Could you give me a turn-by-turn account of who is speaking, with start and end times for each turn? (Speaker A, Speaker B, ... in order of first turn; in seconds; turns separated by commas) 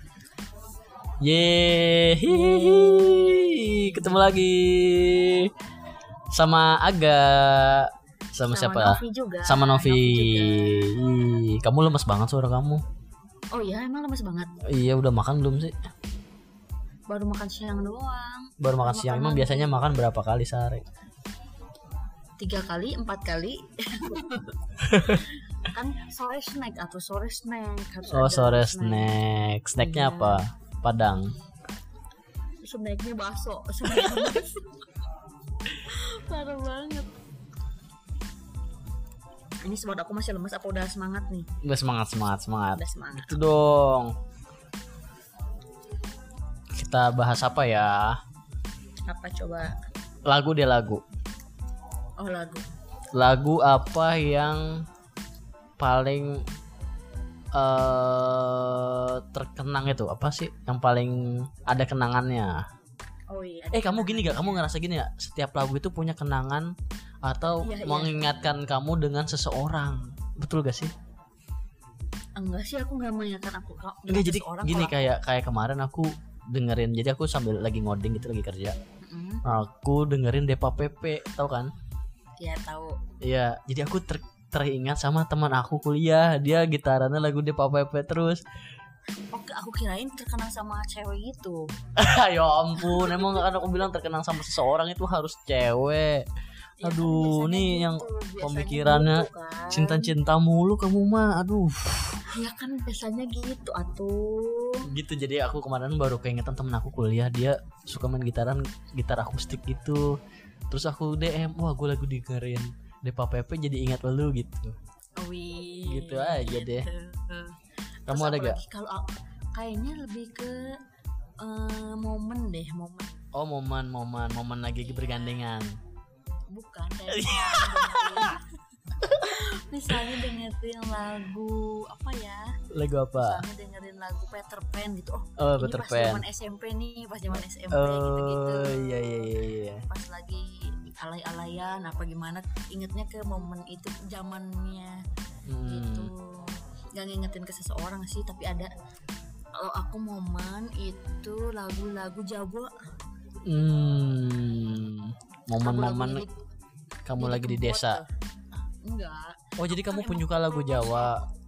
Speaker A: 1.2-5.5, Speaker A: 6.3-12.8, Speaker B: 8.4-10.9, Speaker B: 13.5-14.5, Speaker A: 14.7-15.8, Speaker B: 17.1-19.7, Speaker A: 18.6-20.8, Speaker B: 22.4-24.5, Speaker A: 24.9-25.2, Speaker B: 25.1-29.1, Speaker A: 28.1-31.3, Speaker B: 29.8-30.4, Speaker B: 32.6-34.7, Speaker B: 35.9-37.1, Speaker B: 39.6-41.5, Speaker A: 41.6-44.1, Speaker B: 42.8-43.4, Speaker A: 46.8-48.2, Speaker B: 49.1-49.7, Speaker A: 50.3-51.0, Speaker B: 52.2-52.6, Speaker A: 53.2-54.6, Speaker A: 55.8-56.3, Speaker A: 57.5-61.1, Speaker A: 61.7-62.6, Speaker B: 63.3-64.6, Speaker A: 63.7-66.7, Speaker A: 67.2-70.9, Speaker B: 67.6-68.2, Speaker B: 72.4-75.1, Speaker A: 74.1-78.8, Speaker B: 79.0-79.4, Speaker A: 79.5-81.7, Speaker B: 82.4-83.0, Speaker A: 83.2-88.4, Speaker B: 89.3-91.6, Speaker A: 92.0-96.2, Speaker B: 92.8-93.4, Speaker B: 96.8-100.1, Speaker A: 96.8-102.2, Speaker B: 102.3-104.8, Speaker A: 104.9-110.0, Speaker A: 110.7-114.8, Speaker B: 115.2-117.5, Speaker A: 115.9-116.9, Speaker A: 118.1-118.6, Speaker B: 118.1-120.6, Speaker B: 121.4-123.2, Speaker A: 123.3-125.7, Speaker B: 124.8-125.4, Speaker B: 126.5-128.4, Speaker A: 127.1-128.3, Speaker B: 129.2-132.4, Speaker A: 132.7-133.4, Speaker B: 133.2-139.1, Speaker A: 135.4-136.2, Speaker A: 137.7-139.8, Speaker B: 139.9-144.9, Speaker A: 145.5-146.1, Speaker B: 145.7-148.7, Speaker B: 149.6-152.7, Speaker A: 153.5-156.2, Speaker B: 155.6-156.3, Speaker A: 157.1-158.0, Speaker B: 157.2-158.1, Speaker B: 158.9-161.2, Speaker A: 159.6-161.1